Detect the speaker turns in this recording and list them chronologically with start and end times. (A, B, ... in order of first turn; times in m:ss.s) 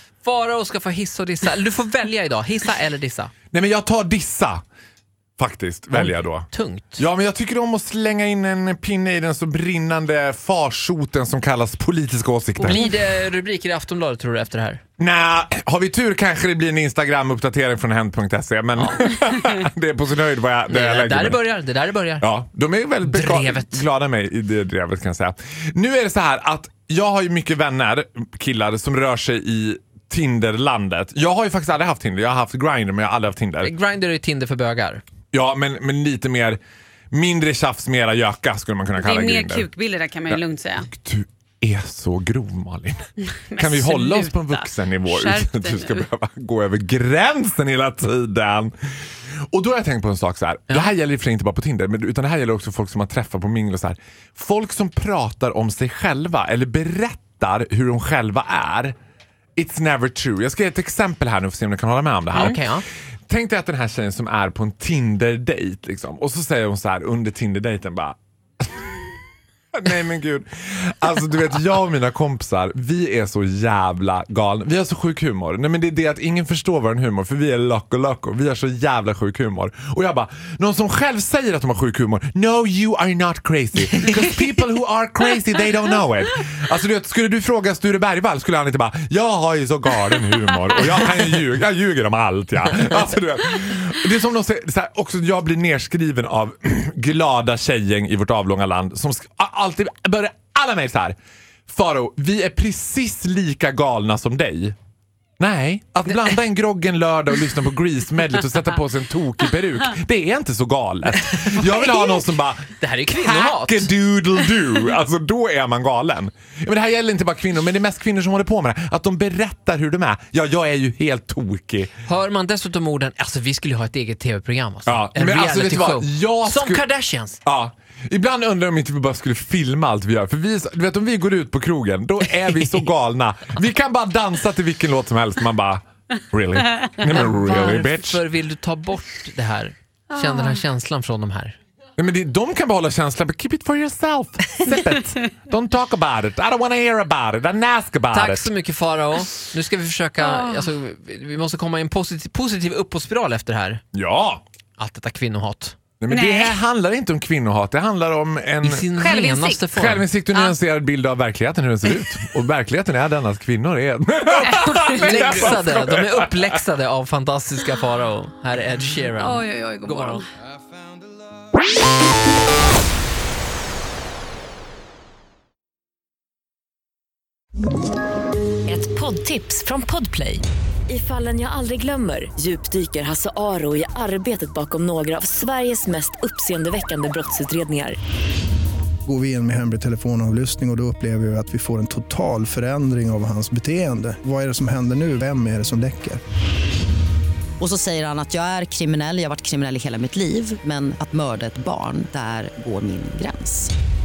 0:00.2-0:03.3 A
0:03.5-0:04.6 B
0:05.4-0:06.5 B
0:05.9-0:07.0 A
0:07.0-0:12.8 B
0:12.6-0:14.8 A
0:15.0-0:21.5 B
0:20.7-0:22.3 A
0:22.2-0:33.7 B
0:23.1-0:23.8 A
0:33.6-0:35.0 A
0:35.3-0:36.6 B
0:37.1-0:39.7 B
0:39.0-0:40.9 C
0:40.3-0:48.7 B
0:43.4-0:46.1 C
0:49.5-0:59.0 B
0:59.6-1:02.6 B
1:02.3-1:02.8 A
1:03.3-1:09.1 B
1:09.7-1:41.2 B
1:41.7-1:44.8 B
1:45.4-2:01.9 B
1:51.3-1:51.7 A
1:52.8-1:53.9 A
2:02.0-2:07.4 A
2:04.9-2:06.8 B
2:07.4-2:18.2 B
2:17.2-2:21.6 A
2:20.1-2:20.6 C
2:22.0-2:28.5 B
2:28.1-2:33.8 A
2:30.2-2:30.7 C
2:33.9-2:34.4 B
2:34.8-2:35.8 A
2:36.0-2:38.9 B
2:36.1-2:36.6 C
2:38.6-2:40.1 A
2:39.0-2:39.6 C
2:39.7-2:46.6 B
2:44.3-2:45.6 C
2:45.0-2:50.2 A
2:49.2-2:50.2 C
2:58.7-3:08.0 D
3:09.1-3:16.2 E
3:17.6-3:23.7 F